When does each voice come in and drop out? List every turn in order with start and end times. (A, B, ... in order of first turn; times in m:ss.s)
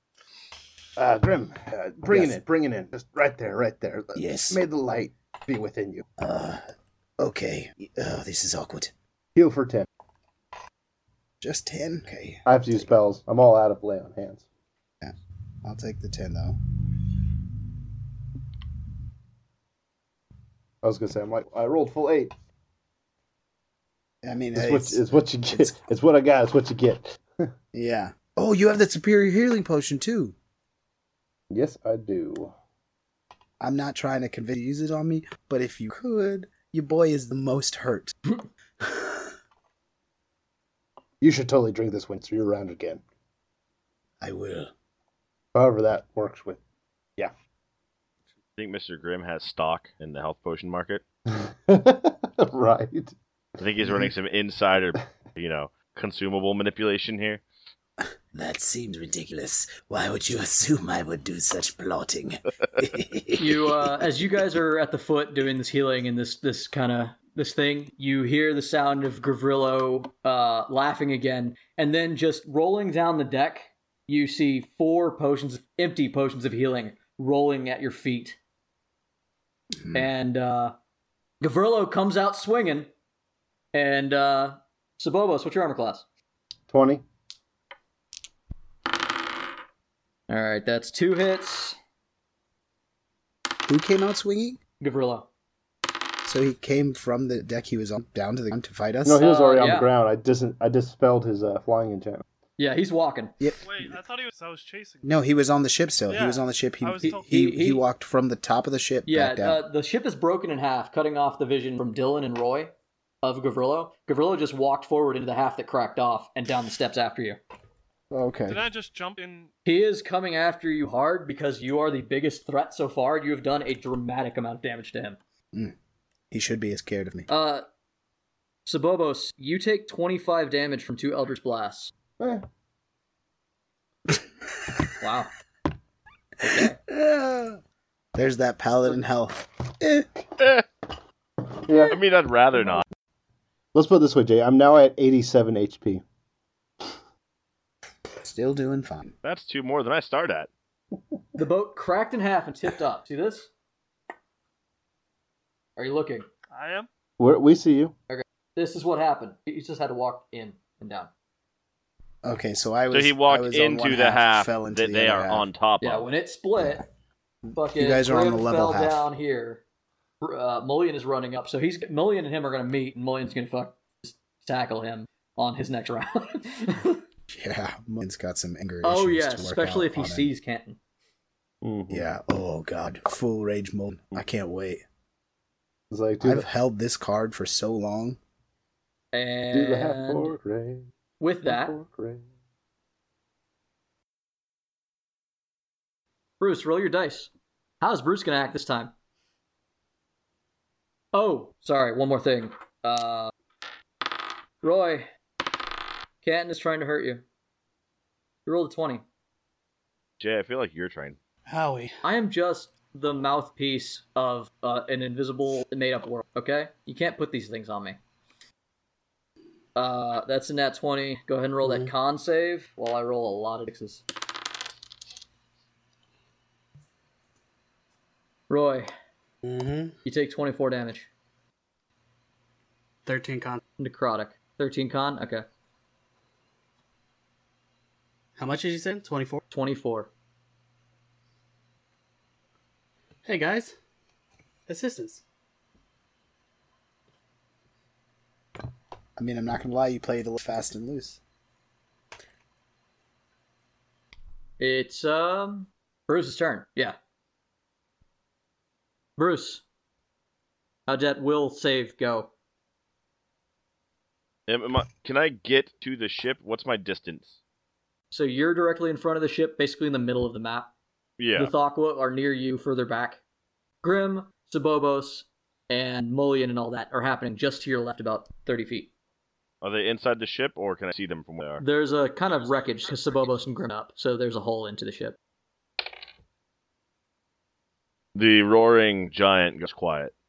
0:01.0-0:06.0 A
0:02.1-0:02.4 B
0:04.1-0:04.6 B
0:06.2-0:06.6 B
0:07.2-0:08.9 B
0:09.3-0:09.9 A
0:11.4-0:12.9 B
0:12.5-0:14.4 A
0:15.0-0:16.6 B
0:20.8-0:22.3 A
0:24.2-0:25.8 B
0:24.5-0:27.5 A
0:27.7-0:30.3 B
0:31.5-0:32.5 A
0:33.6-0:38.2 B
0:38.8-0:39.3 B
0:41.2-0:43.0 A
0:44.2-0:44.7 B
0:45.5-0:46.6 A
0:48.6-0:51.0 C
0:51.3-0:53.1 A
0:53.6-0:57.4 C
0:53.8-0:54.1 A
0:58.3-1:03.9 B
1:03.4-1:18.4 D
1:19.9-1:20.7 D
1:21.4-1:22.9 D
1:23.7-1:26.0 D
1:26.7-1:27.0 A
1:30.3-1:31.8 D
1:33.6-1:34.6 B
1:34.8-1:35.3 D
1:36.2-1:39.2 B
1:39.0-1:42.2 A
1:39.2-1:39.9 D
1:42.6-1:43.3 D
1:43.6-1:45.0 E
1:45.0-1:49.6 B
1:46.1-1:47.3 E
1:47.0-1:47.8 D
1:49.0-1:57.4 D
1:58.1-1:58.6 B
1:58.5-1:59.5 E
1:59.6-2:05.2 D
2:06.3-2:07.3 B
2:07.3-2:07.6 D
2:08.6-2:11.9 D
2:12.2-2:12.4 A
2:15.0-2:15.3 D
2:16.4-2:16.8 D
2:16.6-2:17.6 B
2:18.1-2:20.1 B
2:21.6-2:22.0 A
2:21.9-2:22.8 C
2:23.7-2:26.0 A
2:28.2-2:29.1 B
2:29.2-2:30.5 C
2:31.4-2:33.5 D
2:35.8-2:36.2 D
2:36.5-2:36.9 E
2:37.2-2:37.9 A
2:38.1-2:41.1 D
2:42.2-2:45.5 B
2:42.9-2:46.1 C
2:45.8-2:46.8 D
2:47.5-2:49.1 B
2:47.5-2:49.6 D
2:50.2-2:57.0 D
2:57.3-3:00.3 B
2:58.8-3:00.8 D
3:01.6-3:02.0 A
3:01.9-3:04.8 B
3:05.9-3:06.4 A
3:06.2-3:08.2 B
3:09.1-3:10.3 D
3:09.5-3:10.9 A
3:11.2-3:11.7 D
3:11.4-3:12.2 A
3:16.4-3:17.3 D
3:17.8-3:18.9 D
3:21.1-3:23.3 D
3:24.6-3:25.1 D
3:26.2-3:27.2 D
3:28.4-3:29.0 D
3:30.2-3:31.2 C
3:31.5-3:32.0 F
3:32.0-3:38.0 D
3:39.8-3:44.0 D
3:41.6-3:41.9 F
3:48.5-3:48.9 D
3:49.4-3:49.9 F
3:50.0-3:51.1 D
3:53.0-3:53.6 F
3:53.8-3:55.4 D
3:58.4-3:59.4 F
3:59.5-4:00.1 D
4:03.2-4:03.7 F
4:04.7-4:05.2 F
4:09.2-4:11.2 B
4:14.6-4:17.0 D
4:19.2-4:19.6 D
4:20.9-4:22.3 D
4:24.5-4:27.4 C
4:28.1-4:30.7 D
4:31.2-4:31.5 C
4:31.4-4:33.2 D
4:33.8-4:38.9 D
4:39.6-4:41.6 C
4:41.6-4:45.2 D
4:48.1-4:50.1 C